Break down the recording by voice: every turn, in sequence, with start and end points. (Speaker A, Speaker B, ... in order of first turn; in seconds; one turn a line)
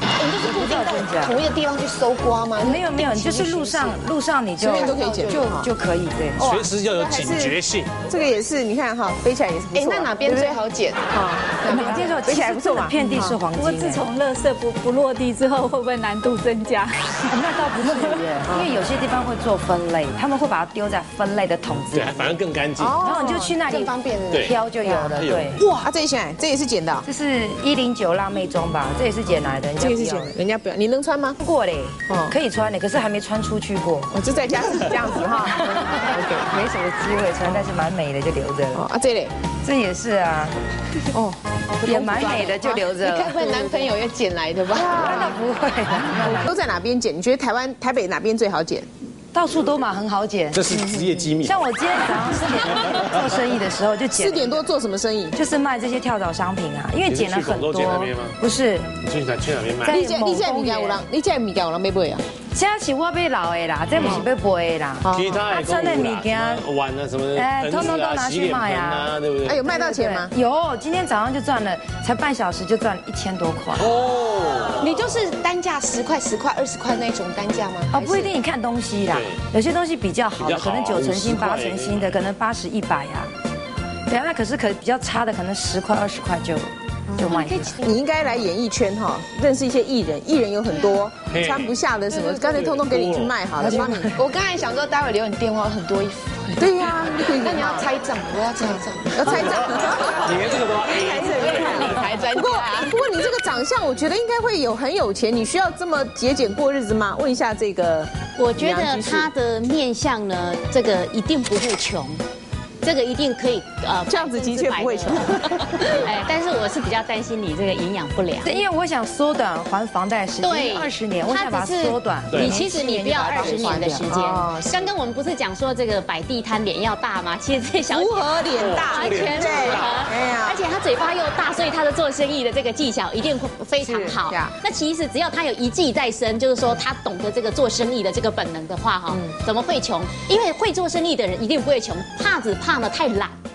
Speaker A: 0.1-4.0
Speaker B: 0.4-1.4
Speaker B: 2.6-6.4
Speaker C: 4.6-5.6
Speaker A: 4.6-5.6
Speaker C: 6.4-10.6
Speaker D: 6.4-7.9
Speaker A: 9.7-11.1
Speaker C: 11.1-13.4
Speaker A: 11.6-12.2
Speaker B: 11.7-14.1
Speaker E: 13.6-16.9
Speaker B: 17.3-22.4
Speaker C: 18.5-18.7
Speaker D: 21.9-23.0
Speaker C: 22.8-23.5
Speaker B: 23.0-25.6
Speaker A: 23.0-25.1
Speaker D: 24.3-24.6
Speaker D: 25.2-25.5
Speaker C: 25.6-27.1
Speaker B: 27.0-30.3
Speaker C: 29.8-31.4
Speaker B: 31.4-34.1
Speaker C: 32.1-32.3
Speaker C: 34.1-36.5
Speaker B: 35.3-38.8
Speaker C: 38.7-39.3
Speaker B: 39.6-40.6
Speaker C: 41.1-41.4
Speaker A: 41.8-45.2
Speaker B: 41.8-43.4
Speaker C: 44.7-45.4
Speaker B: 44.9-46.5
Speaker C: 46.2-48.9
Speaker B: 49.3-50.8
Speaker D: 50.5-51.6
Speaker C: 50.7-51.2
Speaker B: 51.4-54.7
Speaker C: 54.1-55.4
Speaker B: 55.3-58.9
Speaker D: 57.1-58.4
Speaker D: 59.0-60.0
Speaker B: 59.8-61.0
Speaker C: 59.9-62.2
Speaker B: 62.5-66.6
Speaker C: 64.0-64.2
Speaker C: 65.0-65.5
Speaker D: 65.1-69.7
Speaker B: 67.3-74.0
Speaker C: 69.4-70.3
Speaker D: 73.8-74.9
Speaker A: 74.8-78.3
Speaker B: 77.9-83.3
Speaker D: 79.1-79.4
Speaker D: 80.4-82.2
Speaker B: 84.1-87.8
Speaker A: 87.1-88.0
Speaker C: 87.8-94.1
Speaker A: 90.7-91.0
Speaker D: 91.3-91.7
Speaker A: 92.1-92.6
Speaker D: 92.5-93.4
Speaker B: 93.6-94.2
Speaker A: 94.2-103.0
Speaker C: 96.6-97.9
Speaker C: 99.1-109.3
Speaker D: 100.2-101.8
Speaker F: 108.3-112.2
Speaker F: 112.8-118.7
Speaker C: 114.1-116.1
Speaker B: 118.4-124.1
Speaker F: 120.4-143.3
Speaker D: 122.3-122.6
Speaker C: 123.3-124.9
Speaker C: 127.9-130.6
Speaker D: 128.5-130.0
Speaker C: 133.8-134.6
Speaker C: 139.1-139.4